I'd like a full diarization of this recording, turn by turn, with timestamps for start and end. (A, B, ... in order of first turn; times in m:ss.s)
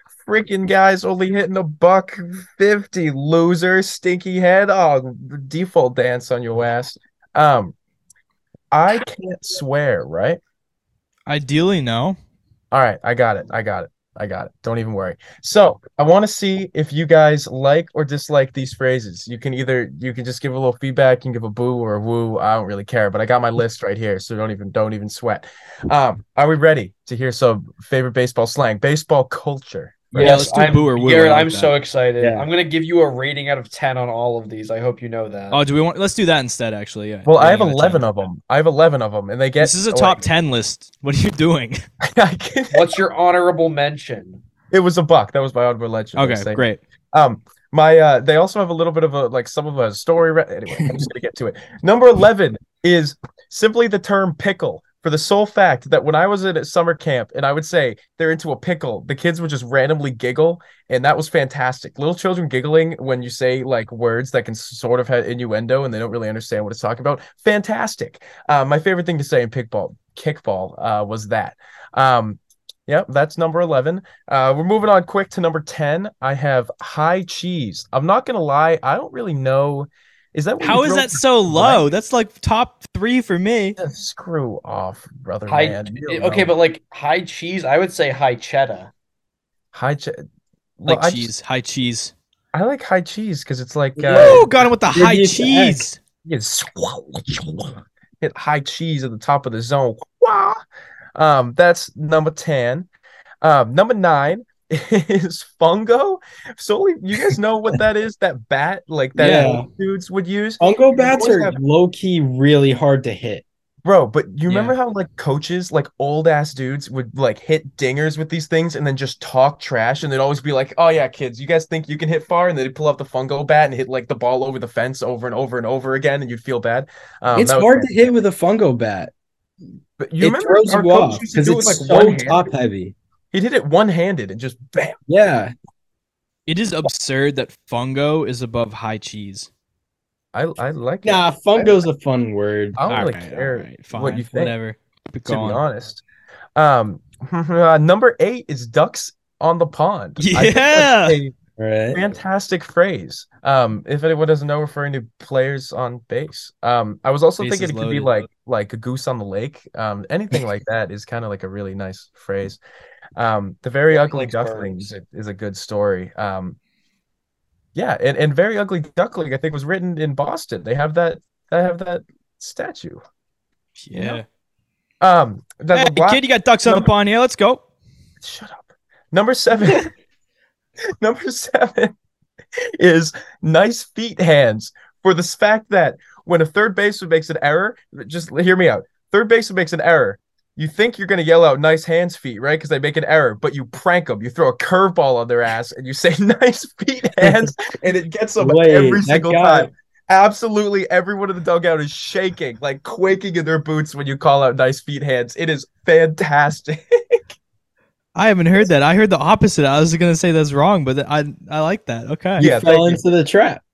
0:00.2-0:07.7 A
0:08.7-0:10.4 A
0:11.3-0:12.2 B
0:12.7-0:30.3 A
0:30.1-0:35.6 C
0:30.2-0:31.7 B
0:32.2-0:32.5 D
0:35.5-0:38.0 B
0:37.2-0:40.3 A
0:39.6-0:41.8 B
0:42.0-0:42.9 A
0:42.7-0:44.4 C
0:44.7-1:21.8 A
0:46.2-0:46.8 B
1:20.6-1:23.8 B
1:23.8-1:26.5 A
1:25.5-1:28.9 C
1:29.7-1:30.2 A
1:30.8-1:31.3 A
1:30.8-1:32.1 B
1:32.5-1:34.5 A
1:34.0-1:35.8 D
1:34.1-1:36.0 B
1:36.2-1:40.6 A
1:41.2-1:42.9 A
1:43.4-1:51.6 A
1:49.2-1:49.6 B
1:49.2-1:49.7 D
1:50.6-1:53.4 D
1:53.8-2:07.9 A
1:54.5-1:54.8 B
2:07.3-2:09.1 D
2:10.0-2:12.4 A
2:10.2-2:12.9 D
2:13.3-2:15.0 A
2:15.1-2:15.5 D
2:16.5-2:19.5 B
2:20.3-2:21.7 A
2:21.0-2:22.8 D
2:22.8-2:24.6 A
2:22.9-2:25.6 B
2:25.2-2:26.0 A
2:26.6-2:31.4 A
2:30.2-2:31.2 B
2:31.6-2:32.0 D
2:31.9-2:42.6 A
2:37.4-2:38.2 B
2:43.2-2:46.6 A
2:43.9-2:44.9 C
2:47.7-2:53.0 A
2:53.8-2:54.2 B
2:53.9-2:54.2 A
2:55.0-2:56.9 A
2:55.7-2:57.6 B
2:58.2-2:59.9 A
3:01.0-3:01.9 A
3:02.8-3:27.2 A
3:17.2-3:17.5 D
3:18.4-3:19.7 D
3:28.1-3:32.7 B
3:32.4-3:33.0 A
3:32.4-3:33.6 D